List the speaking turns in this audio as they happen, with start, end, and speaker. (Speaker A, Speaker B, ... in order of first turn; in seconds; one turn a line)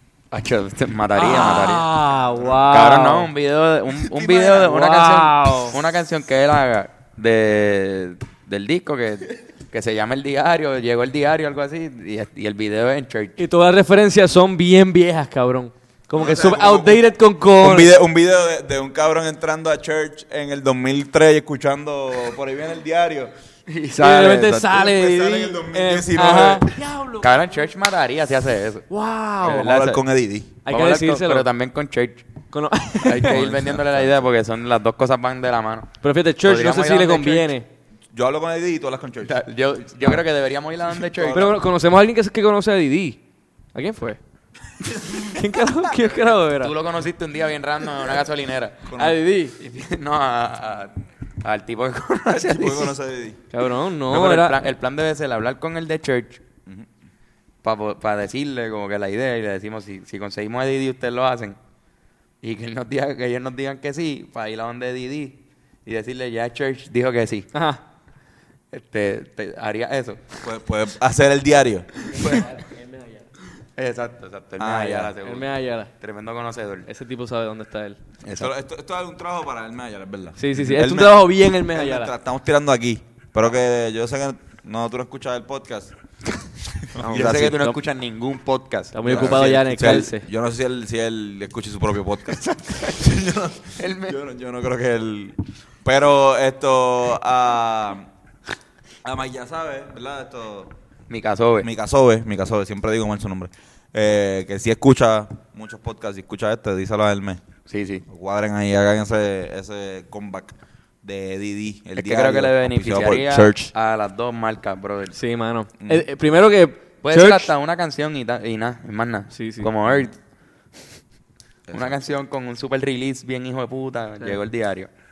Speaker A: 0.3-1.9
Speaker B: 1.1-3.3
Speaker C: 2.3-2.7
Speaker A: 2.7-13.4
Speaker B: 4.1-5.8
Speaker B: 13.4-17.9
Speaker C: 16.1-17.0
Speaker C: 17.6-23.3
Speaker A: 23.7-24.9
Speaker B: 24.0-27.4
Speaker C: 24.7-26.7
Speaker A: 27.2-28.9
Speaker B: 28.9-29.7
Speaker A: 29.4-30.0
Speaker C: 29.4-30.6
Speaker B: 30.6-31.5
Speaker A: 30.6-32.3
Speaker B: 32.5-33.4
Speaker A: 33.0-37.5
Speaker C: 33.1-34.2
Speaker B: 36.0-37.6
Speaker C: 38.1-39.4
Speaker A: 39.2-41.5
Speaker C: 41.0-41.6
Speaker B: 41.3-43.2
Speaker B: 43.7-44.2
Speaker C: 44.8-45.3
Speaker B: 45.2-46.7
Speaker A: 46.5-48.9
Speaker C: 48.9-49.2
Speaker B: 49.0-49.5
Speaker A: 49.6-52.9
Speaker C: 52.3-53.4
Speaker B: 53.5-54.6
Speaker A: 54.1-56.4
Speaker A: 57.6-61.6
Speaker A: 62.4-67.5
Speaker B: 67.5-67.8
Speaker A: 68.7-70.3
Speaker C: 70.4-72.4
Speaker A: 72.1-72.5
Speaker B: 72.2-73.2
Speaker A: 73.7-76.9
Speaker C: 74.6-75.1
Speaker B: 75.2-75.9
Speaker B: 76.8-78.0
Speaker A: 78.2-78.5
Speaker C: 78.3-85.9
Speaker B: 80.4-82.1
Speaker C: 86.9-87.7
Speaker A: 87.0-89.5
Speaker B: 87.4-87.8
Speaker B: 88.9-90.2
Speaker C: 89.0-98.1
Speaker A: 92.2-93.0
Speaker A: 93.8-94.2
Speaker C: 99.0-100.7
Speaker A: 101.1-101.7
Speaker C: 101.6-107.4
Speaker A: 107.7-108.0
Speaker C: 108.1-113.7
Speaker A: 112.0-115.2
Speaker B: 115.1-117.5
Speaker A: 117.0-120.2
Speaker B: 119.3-119.7
Speaker C: 121.7-122.0
Speaker A: 121.7-124.9